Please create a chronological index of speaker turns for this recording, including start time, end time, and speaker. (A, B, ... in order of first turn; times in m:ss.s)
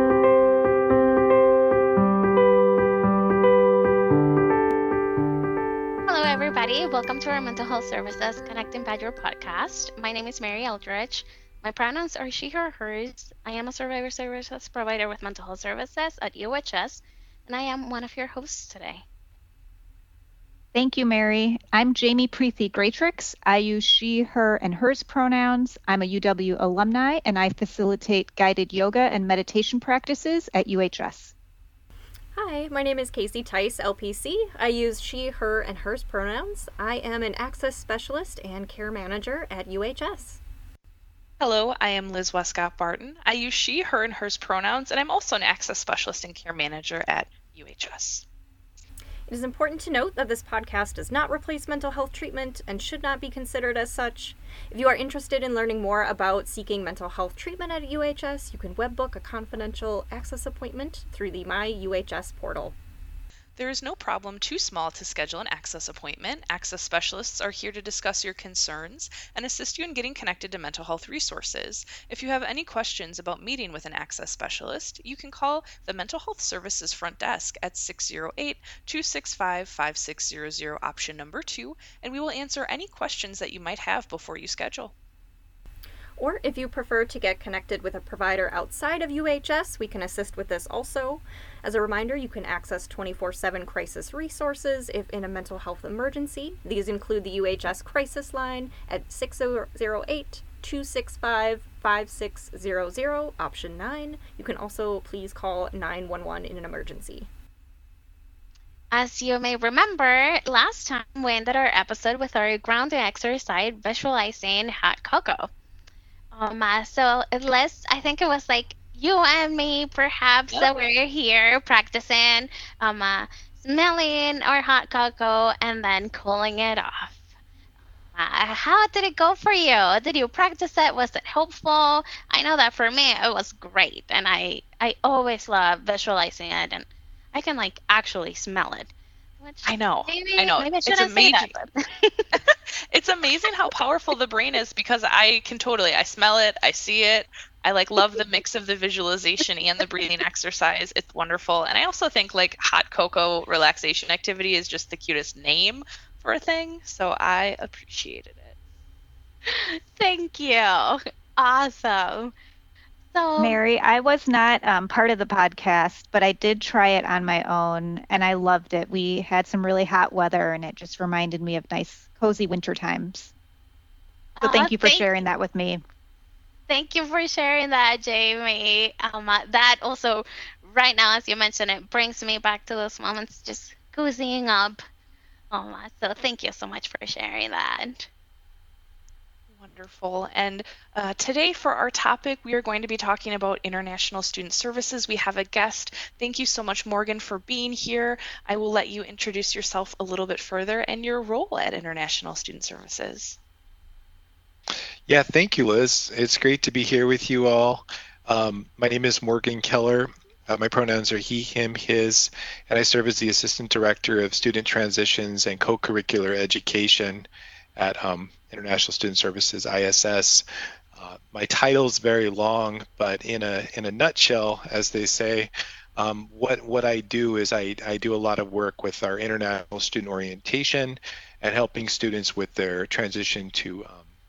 0:06.1-0:19.0 A
0:20.7-0:31.3 B
0:32.4-0:40.4 C
0:41.4-0:48.2 D
0:49.3-1:02.8 C
1:03.6-1:24.9 D
1:26.2-1:47.3 C
1:48.9-1:55.5 A
1:56.3-2:07.2 A
2:08.2-2:22.2 A
2:19.6-2:21.5 D
2:22.3-2:38.6 D
2:39.5-2:42.3 A
2:43.1-2:43.6 A
2:43.4-2:53.3 B
2:54.4-2:55.2 A
2:54.4-2:55.8 B
2:56.7-3:04.8 A
3:05.5-3:08.1 A
3:09.5-3:23.4 D
3:25.1-3:54.1 E